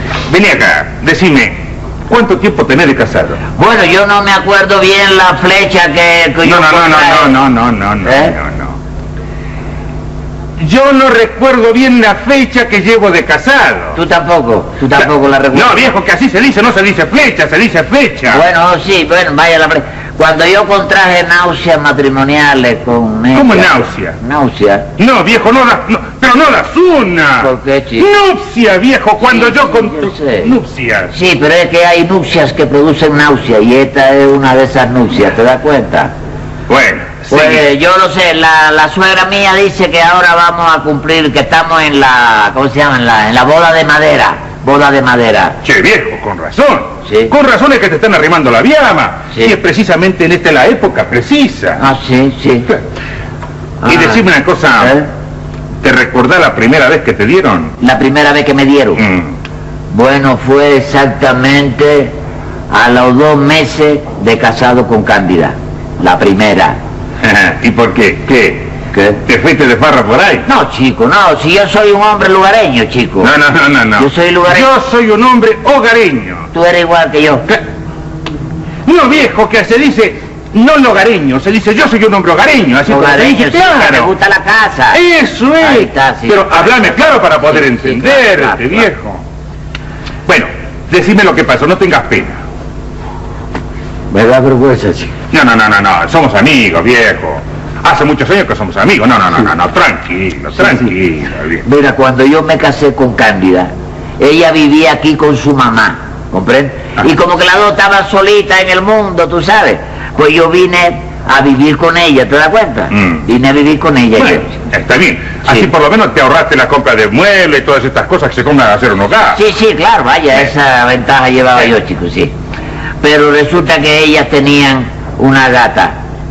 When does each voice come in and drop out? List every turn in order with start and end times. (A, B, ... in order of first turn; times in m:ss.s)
0:00.3-0:03.4 A
0:03.6-0:07.4 B
0:06.4-0:08.8 A
0:08.0-0:08.4 B
0:10.6-0:14.0 A
0:14.0-0:15.9 B
0:15.0-0:18.4 A
0:18.3-0:24.9 B
0:23.3-0:24.2 A
0:25.0-0:31.1 A
0:27.4-0:28.1 B
0:29.2-0:30.6 B
0:31.1-0:36.1 B
0:36.7-0:37.6 A
0:37.3-0:45.6 B
0:45.6-0:51.8 A
0:47.0-0:47.3 B
0:51.8-0:52.7 B
0:53.8-0:54.3 B
0:53.8-0:55.0 A
0:54.8-0:55.1 B
0:55.8-0:57.8 A
0:57.8-0:59.0 B
0:59.0-0:59.3 A
0:59.9-1:02.2 B
1:02.7-1:06.8 B
1:07.2-1:08.7 A
1:08.9-1:09.2 B
1:09.2-1:10.4 A
1:10.5-1:13.3 B
1:13.2-1:16.5 A
1:14.0-1:14.7 B
1:16.5-1:17.5 B
1:18.9-1:24.1 A
1:22.9-1:25.0 B
1:24.9-1:29.2 A
1:25.6-1:28.9 B
1:30.3-1:32.4 A
1:34.1-1:35.1 B
1:35.3-1:41.6 A
1:41.6-1:54.6 B
1:52.9-1:53.2 A
1:54.2-1:59.4 A
1:59.3-2:02.3 B
2:03.0-2:06.0 B